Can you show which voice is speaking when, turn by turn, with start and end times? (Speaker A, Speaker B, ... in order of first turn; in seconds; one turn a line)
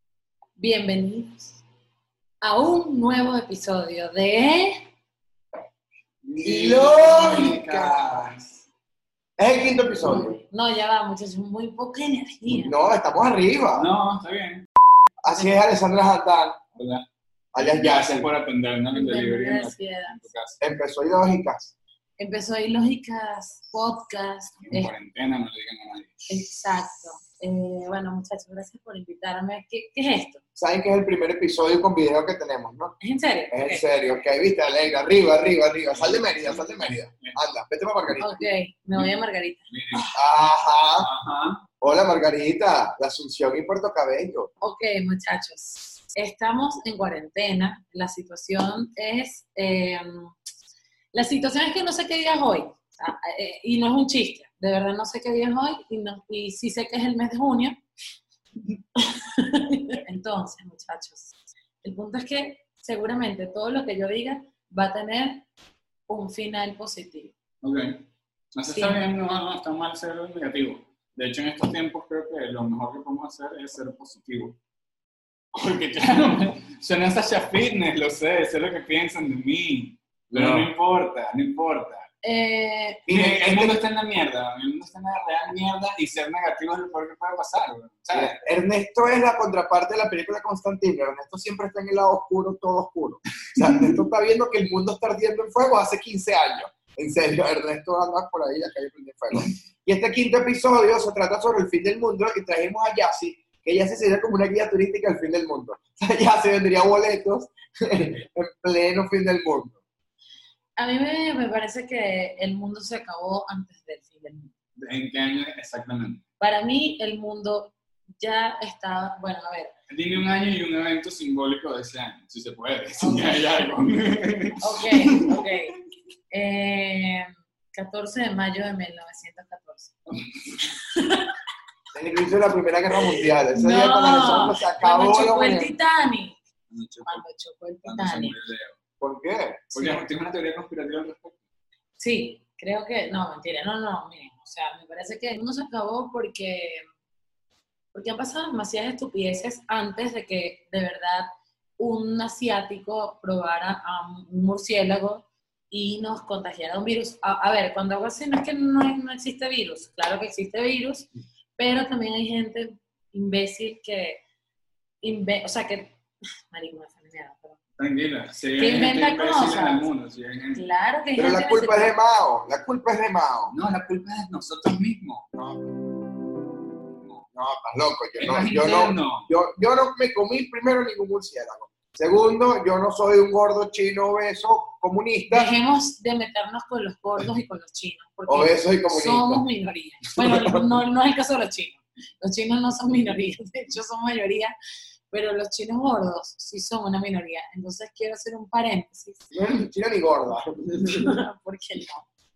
Speaker A: 0.6-1.6
Speaker A: 2.4-4.9
Speaker B: 6.2-8.5
Speaker C: 6.4-8.4
Speaker C: 9.4-10.4
Speaker A: 10.0-12.8
Speaker C: 12.5-13.9
Speaker B: 13.7-14.7
Speaker C: 15.2-16.6
Speaker B: 16.8-20.6
Speaker C: 17.5-18.3
Speaker A: 18.9-20.3
Speaker C: 20.6-21.7
Speaker A: 22.2-24.9
Speaker B: 24.7-26.2
Speaker A: 26.3-30.4
Speaker C: 30.6-33.0
Speaker A: 33.0-33.9
Speaker C: 33.5-38.4
Speaker B: 35.9-37.4
Speaker A: 38.2-40.1
Speaker B: 39.7-40.1
Speaker C: 40.1-41.1
Speaker B: 41.0-41.6
Speaker C: 41.8-44.5
Speaker A: 44.6-50.4
Speaker A: 51.1-57.8
Speaker A: 59.0-65.5
Speaker A: 66.1-67.3
Speaker B: 67.6-74.6
Speaker A: 68.7-69.0
Speaker B: 75.5-82.1
Speaker C: 80.3-80.7
Speaker A: 82.2-83.1
Speaker C: 83.1-83.8
Speaker B: 83.1-88.4
Speaker C: 88.1-109.8
Speaker A: 110.8-114.5
Speaker B: 114.8-116.2
Speaker A: 116.4-119.7
Speaker B: 119.9-125.4
Speaker A: 123.0-123.6
Speaker A: 124.6-125.7
Speaker A: 126.3-129.9
Speaker B: 130.1-130.6
Speaker A: 130.8-131.3
Speaker C: 131.9-135.7
Speaker A: 133.5-136.4
Speaker B: 136.7-137.2
Speaker A: 137.0-138.4
Speaker B: 137.8-138.8
Speaker C: 139.0-139.8
Speaker B: 139.7-141.4
Speaker A: 139.8-140.1
Speaker A: 142.0-146.8
Speaker A: 147.9-164.2
Speaker A: 165.0-166.0
Speaker A: 166.5-167.6
Speaker B: 167.8-170.7
Speaker A: 168.6-169.9
Speaker A: 170.5-171.9
Speaker C: 171.2-173.6
Speaker B: 173.5-175.3
Speaker C: 175.3-175.7
Speaker C: 177.3-185.5
Speaker B: 178.2-179.3
Speaker A: 185.3-194.6
Speaker C: 188.3-189.4
Speaker C: 190.2-190.6
Speaker A: 195.1-199.3
Speaker C: 199.3-201.1
Speaker A: 200.8-202.1